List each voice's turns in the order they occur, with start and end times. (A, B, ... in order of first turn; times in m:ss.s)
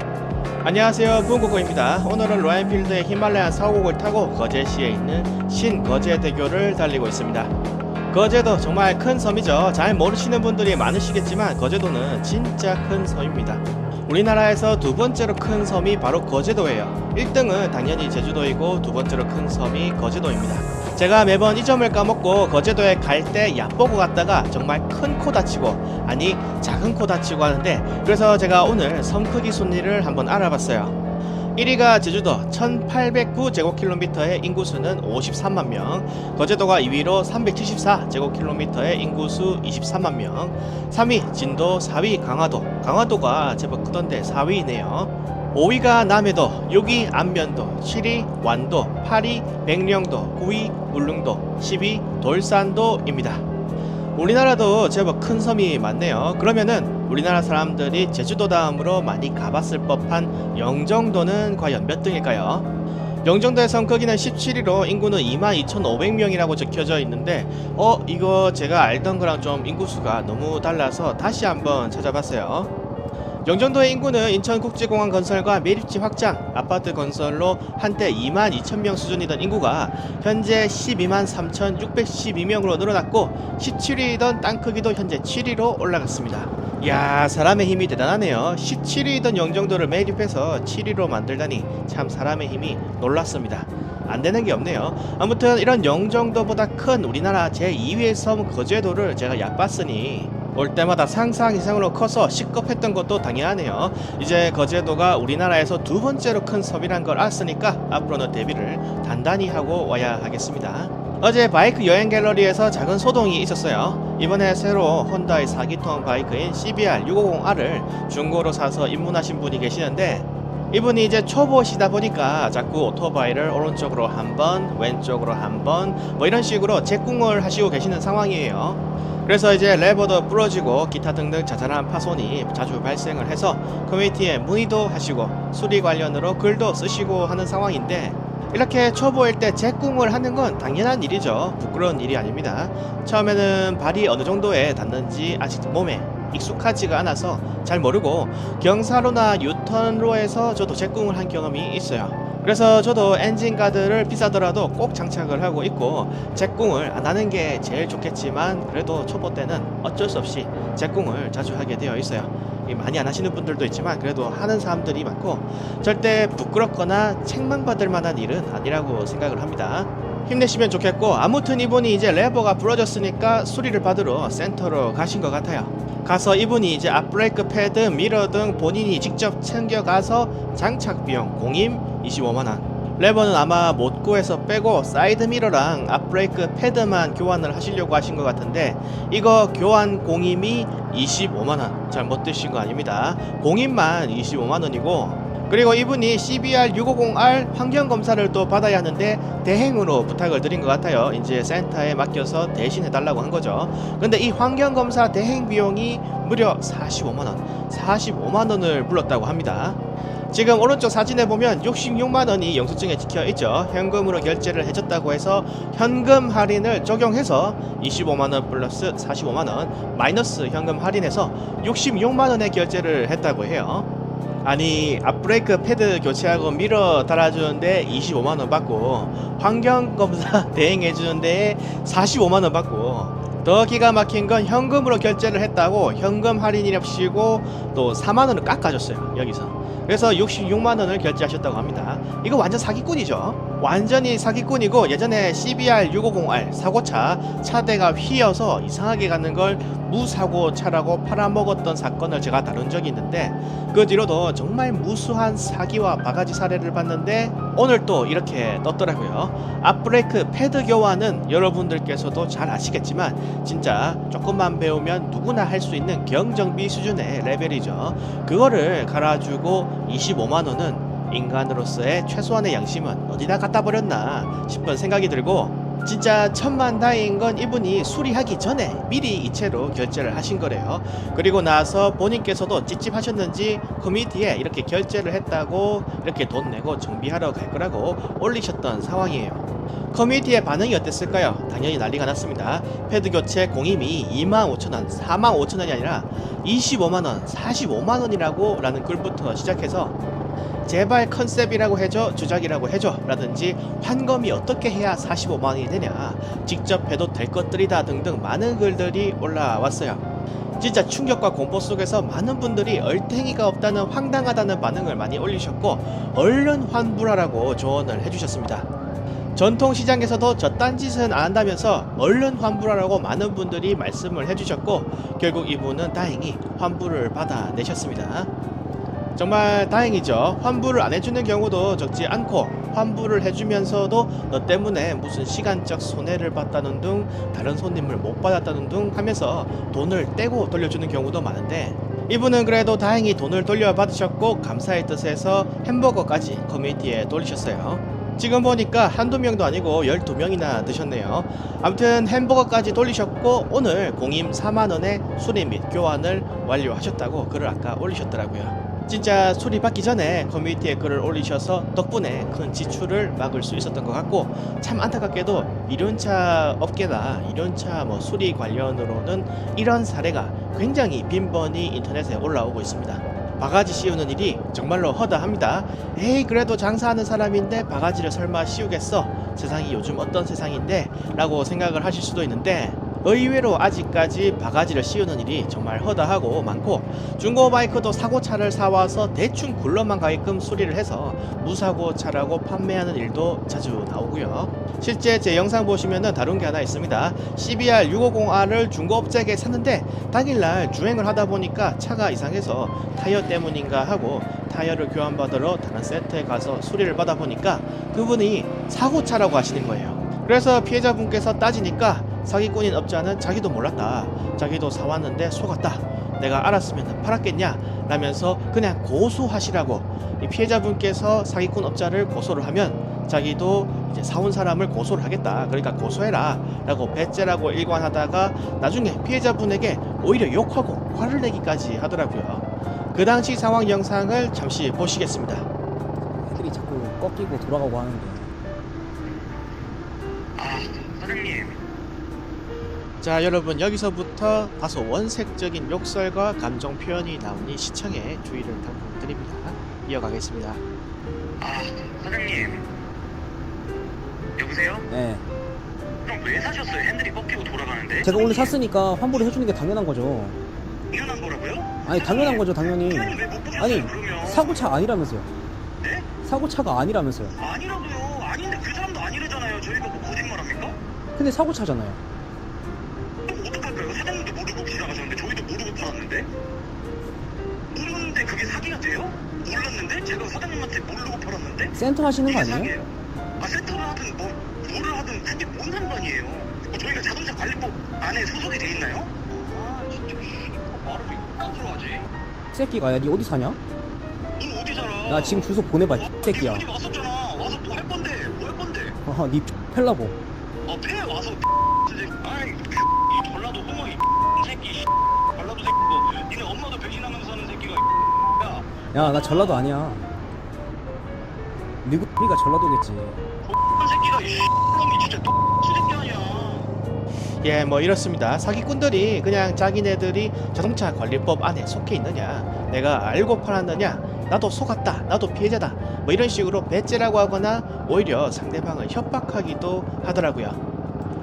0:00.6-0:07.5 A
0:08.1-0:31.0 A
0:31.6-0:53.4 A
0:54.1-1:02.7 A
1:03.2-1:12.7 A
1:13.4-3:29.8 A
3:30.3-3:43.9 A
3:44.4-5:00.0 A
5:00.6-5:10.0 A
5:10.6-5:18.7 A
5:19.4-5:28.3 A
5:29.2-7:15.5 A
7:16.2-7:18.3 B
7:20.4-7:21.6 C
7:23.0-7:30.6 A
7:31.4-7:32.7 C
7:34.4-7:34.9 C
7:34.9-7:35.2 B
7:36.0-7:38.5 C
7:38.0-7:40.4 B
7:40.9-7:44.7 C
7:41.8-7:45.3 B
7:45.8-7:46.1 C
7:46.2-7:47.4 B
7:47.4-7:50.8 C
7:51.1-7:52.0 B
7:53.3-7:56.3 C
7:57.7-8:12.1 C
8:01.7-8:02.7 B
8:12.5-8:13.6 B
8:14.4-8:19.0 C
8:15.1-8:16.7 B
8:19.0-8:20.2 B
8:20.6-8:29.7 C
8:28.9-8:30.1 B
8:31.8-8:33.2 B
8:33.4-8:36.7 C
8:37.4-8:50.6 A